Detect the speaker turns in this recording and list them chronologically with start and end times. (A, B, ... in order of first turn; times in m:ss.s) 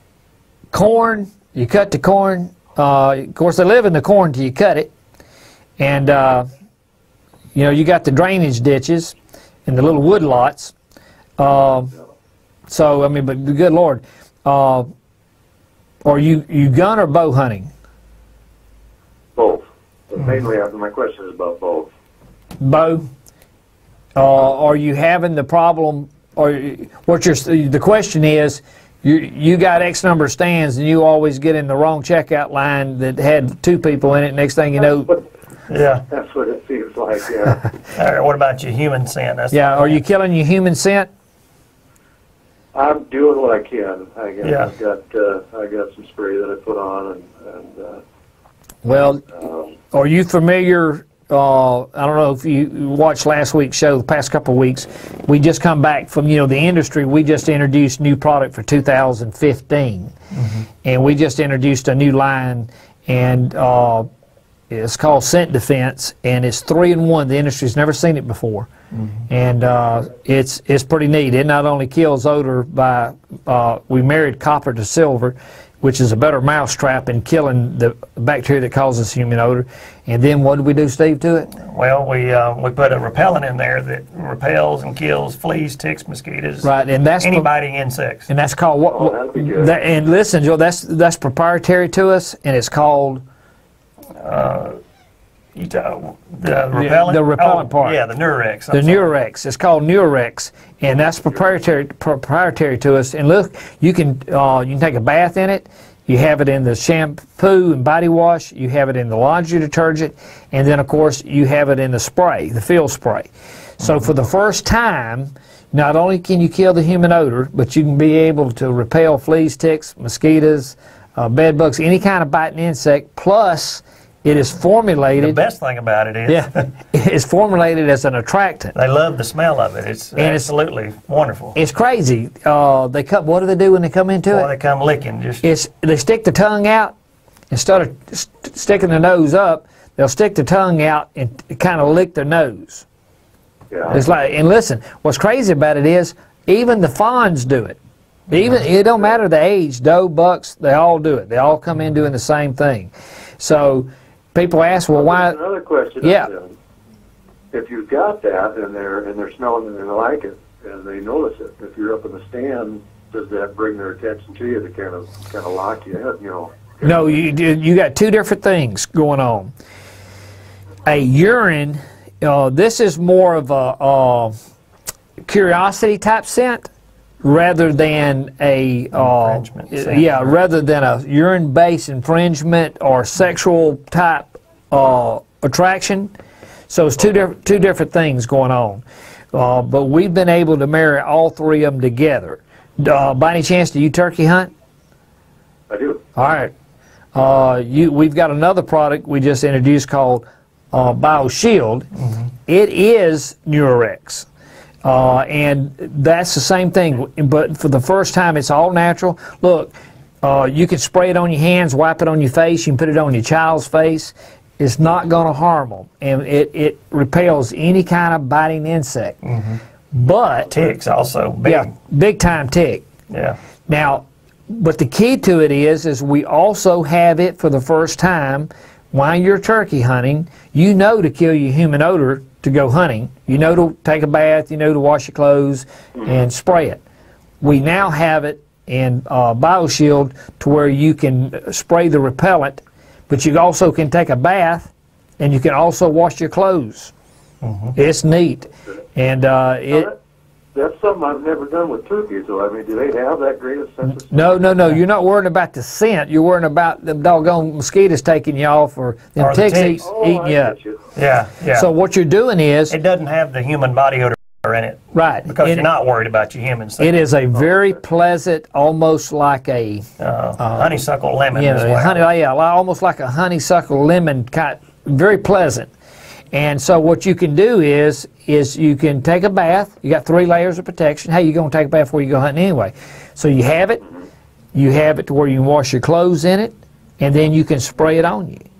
0:00.7-0:04.9 A
0:05.8-0:06.5 A
0:07.5-0:09.1 A
0:09.6-0:10.7 A
0:11.4-0:11.9 A
0:12.7-0:14.9 A
0:16.0-0:17.7 A
0:19.4-0:21.9 B
0:22.6-0:23.1 A
0:24.2-0:35.1 A
0:35.7-0:36.0 C
0:36.1-0:37.7 B
0:38.0-0:40.0 C
0:39.5-0:41.1 A
0:42.7-0:48.0 B
0:44.4-0:44.7 C
0:48.8-0:49.2 A
0:49.3-0:49.7 B
0:49.9-1:00.1 A
1:00.4-1:00.6 C
1:00.8-1:04.1 A
1:04.7-1:08.7 A
1:09.3-1:21.5 A
1:21.6-1:28.3 C
1:26.6-1:27.5 A
1:28.3-1:33.2 A
1:28.9-1:29.8 B
1:34.2-1:34.8 C
1:35.6-1:39.0 C
1:36.7-1:38.0 A
1:38.7-1:53.3 A
1:53.8-2:05.4 A
2:05.2-2:06.7 C
2:06.3-2:08.7 A
2:08.7-2:11.6 C
2:10.2-2:10.5 A
2:11.6-2:14.5 A
2:14.3-2:15.4 C
2:15.4-2:16.9 A
2:17.5-2:22.8 A
2:23.7-2:24.0 B
2:23.9-2:27.8 A
2:28.3-2:35.4 A
2:34.9-2:36.5 B
2:36.0-2:36.3 A
2:37.5-2:47.0 B
2:46.8-2:49.5 A
2:50.8-2:54.3 A
2:55.2-2:56.7 A
2:57.2-3:06.1 A
2:58.9-3:00.2 C
3:06.7-3:14.5 A
3:15.7-3:16.0 B
3:16.2-3:16.5 A
3:17.1-3:21.9 A
3:22.5-3:24.2 A
3:24.8-3:39.2 A
3:39.2-3:39.6 C
3:39.9-3:40.5 A
3:40.5-3:41.7 C
3:41.4-3:42.8 A
3:43.1-3:43.4 C
3:43.7-3:56.8 A
3:57.4-4:06.9 A
4:07.4-4:07.7 C
4:07.7-4:09.9 A
4:09.7-4:10.0 B
4:10.5-4:14.6 B
4:14.1-4:20.6 A
4:19.2-4:19.8 C
4:19.8-4:20.8 B
4:20.9-4:21.7 C
4:21.5-4:22.7 A
4:22.7-4:26.9 C
4:24.9-4:25.7 A
4:26.8-4:29.8 A
4:30.0-4:32.0 C
4:30.4-4:30.7 A
4:31.3-4:35.7 A
4:36.3-4:43.8 A
4:44.5-4:48.4 A